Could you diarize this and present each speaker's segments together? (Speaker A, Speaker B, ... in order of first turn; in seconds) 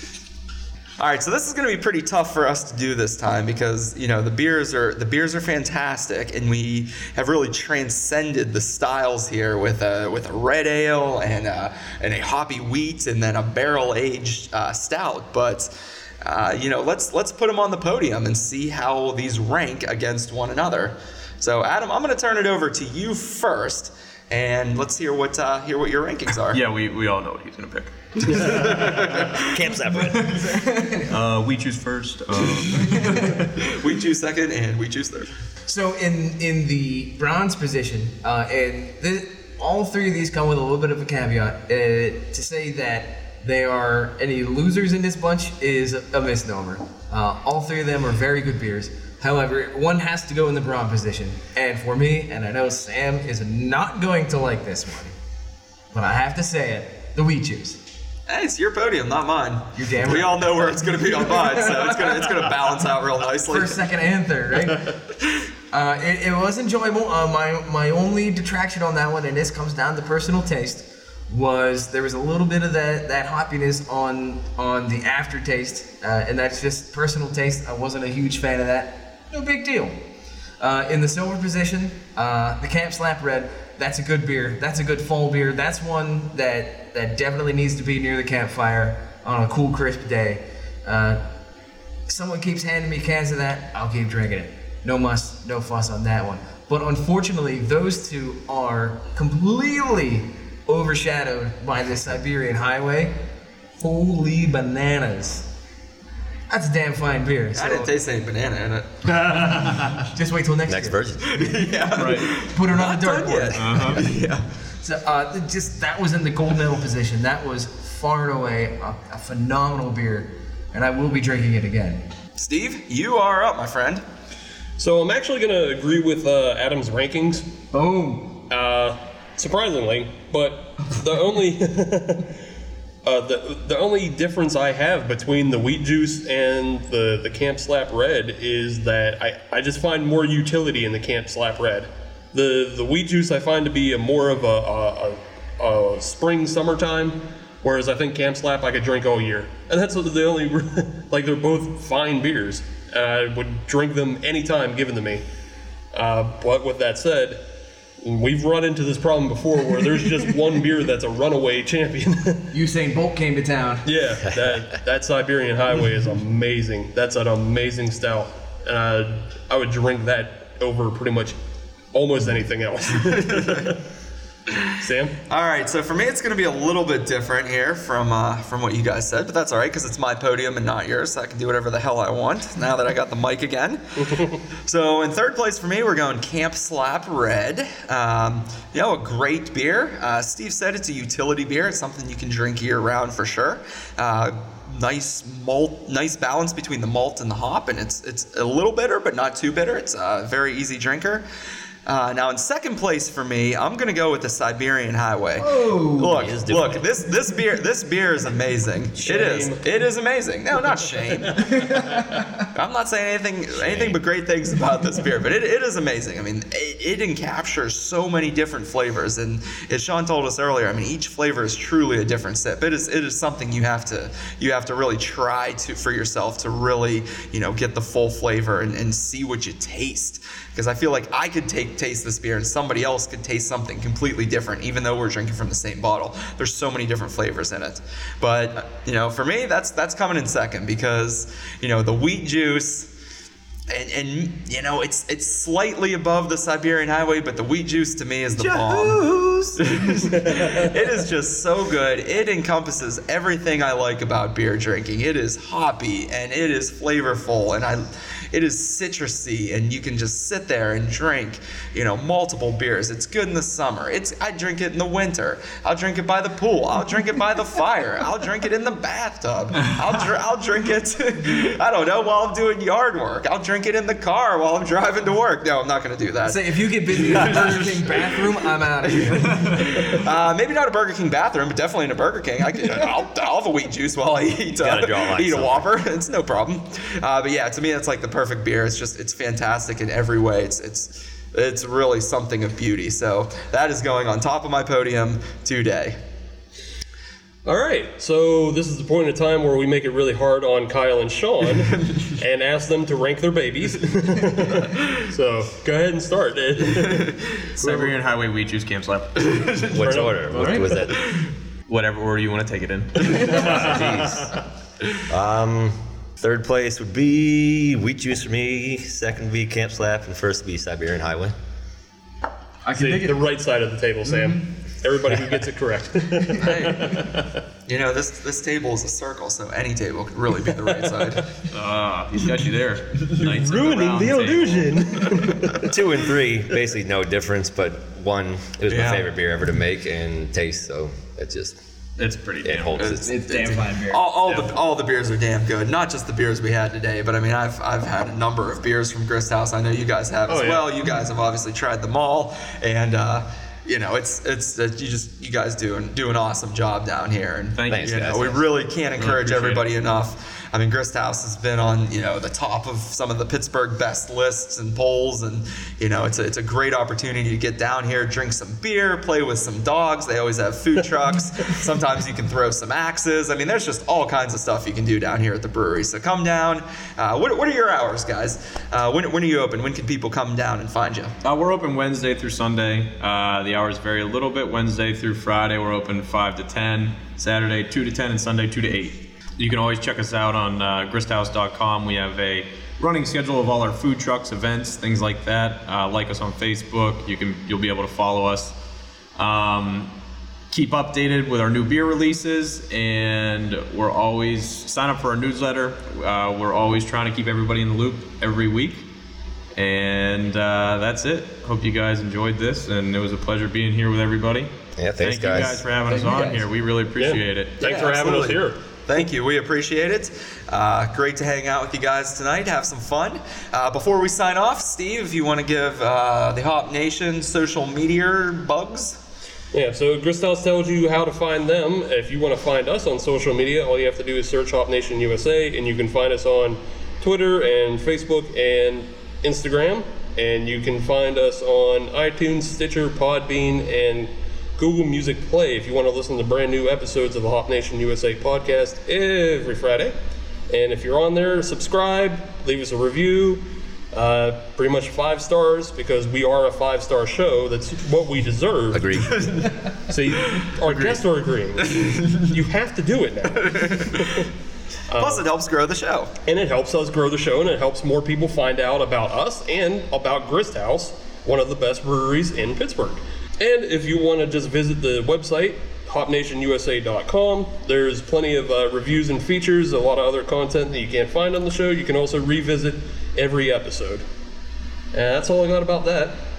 Speaker A: 1.0-15.7, 16.2-26.6, 28.2-29.5, 33.1-35.3, 58.3-63.8, 107.5-109.2, 111.3-114.4, 122.4-124.0, 173.1-173.8, 174.5-174.8, 175.3-184.0, 184.6-201.2, 201.8-211.9, 212.4-242.9, 243.7-278.2, 278.9-296.0, 307.0-307.9, 309.2-309.9, 311.0-311.2, 326.3-331.5, 338.7-339.1, 342.8-381.1, 417.6-429.0, 459.2-459.5, 460.4-461.0, 461.7-462.3, 463.7-464.2, 464.9-466.1
Speaker B: 26.5-28.6, 31.0-33.3, 112.0-112.3, 113.5-114.0, 307.6-309.7, 311.7-313.8, 331.5-334.9, 342.0-343.0, 357.5-359.7, 381.2-398.5, 399.2-399.9, 400.5-408.8, 409.5-414.5, 415.0-417.6
Speaker C: 29.3-30.3, 110.7-111.5, 206.1-206.8, 213.5-214.0, 284.5-285.7, 309.7-311.0, 313.5-314.3, 315.1-321.3, 335.5-341.6, 342.4-343.2, 357.7-358.3, 414.8-415.6, 458.7-459.5
Speaker D: 29.8-31.1, 32.9-33.2, 35.7-55.1, 55.9-57.8, 59.7-60.7, 63.5-65.0, 65.7-80.0, 80.6-91.2, 92.1-103.2, 103.8-105.5, 106.5-107.9, 109.1-111.0, 112.2-114.0, 114.8-122.0, 127.7-128.4, 162.5-163.9, 205.4-206.2, 248.4-249.6, 276.2-279.5, 310.3-310.6, 322.6-323.2, 343.0-344.0, 415.9-416.4
Speaker E: 124.8-127.5, 128.5-132.3, 133.0-155.2, 155.9-157.4, 158.0-162.4, 163.8-171.3, 171.9-173.8, 174.8-175.2, 184.0-184.4, 209.0-209.6, 211.4-212.0, 250.2-250.7, 297.4-307.3, 309.8-310.6, 322.7-327.3, 333.2-335.5, 344.3-344.5, 350.3-350.7, 417.0-418.6, 429.5-449.9, 450.5-459.3, 459.9-464.3, 464.9-465.2, 466.2-484.0, 484.9-486.2